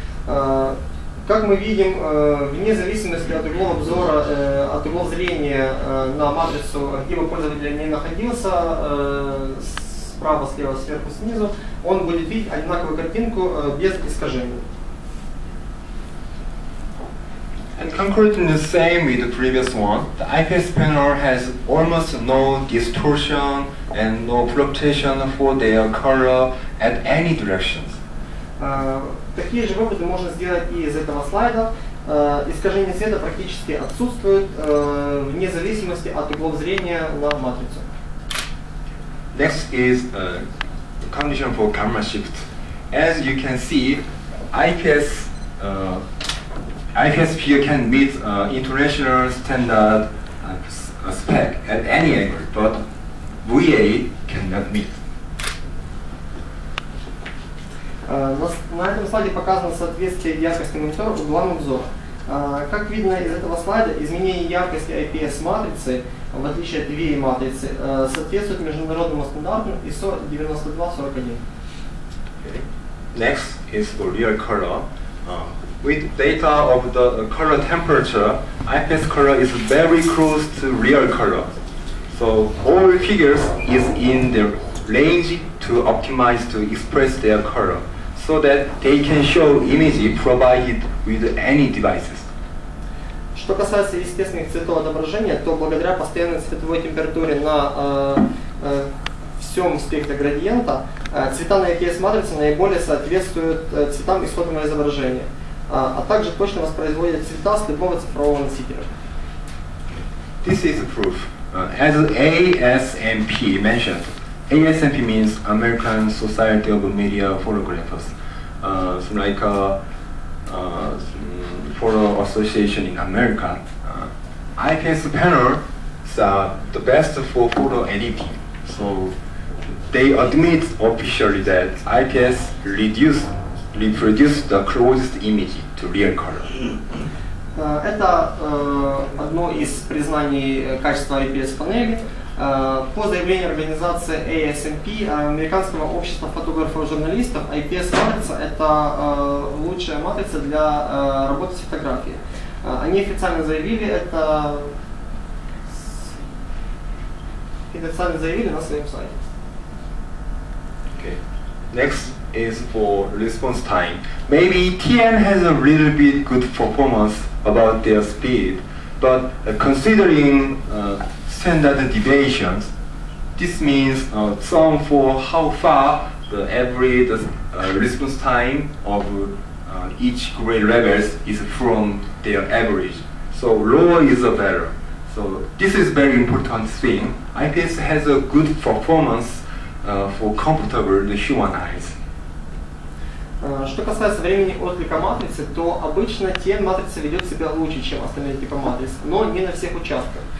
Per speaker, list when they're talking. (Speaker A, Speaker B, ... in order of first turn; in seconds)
Speaker A: 0.3-14.6, 28.6-37.8, 58.1-71.4, 93.3-98.9, 99.4-108.9, 137.6-154.7, 155.7-156.2, 157.7-159.2, 193.4-200.2
Speaker B: 17.8-28.0, 39.3-40.5, 41.0-46.0, 46.9-52.8, 53.4-54.9, 72.4-81.6, 82.1-92.3, 110.4-119.8, 120.5-129.1, 129.9-136.5, 161.7-172.7, 173.3-191.9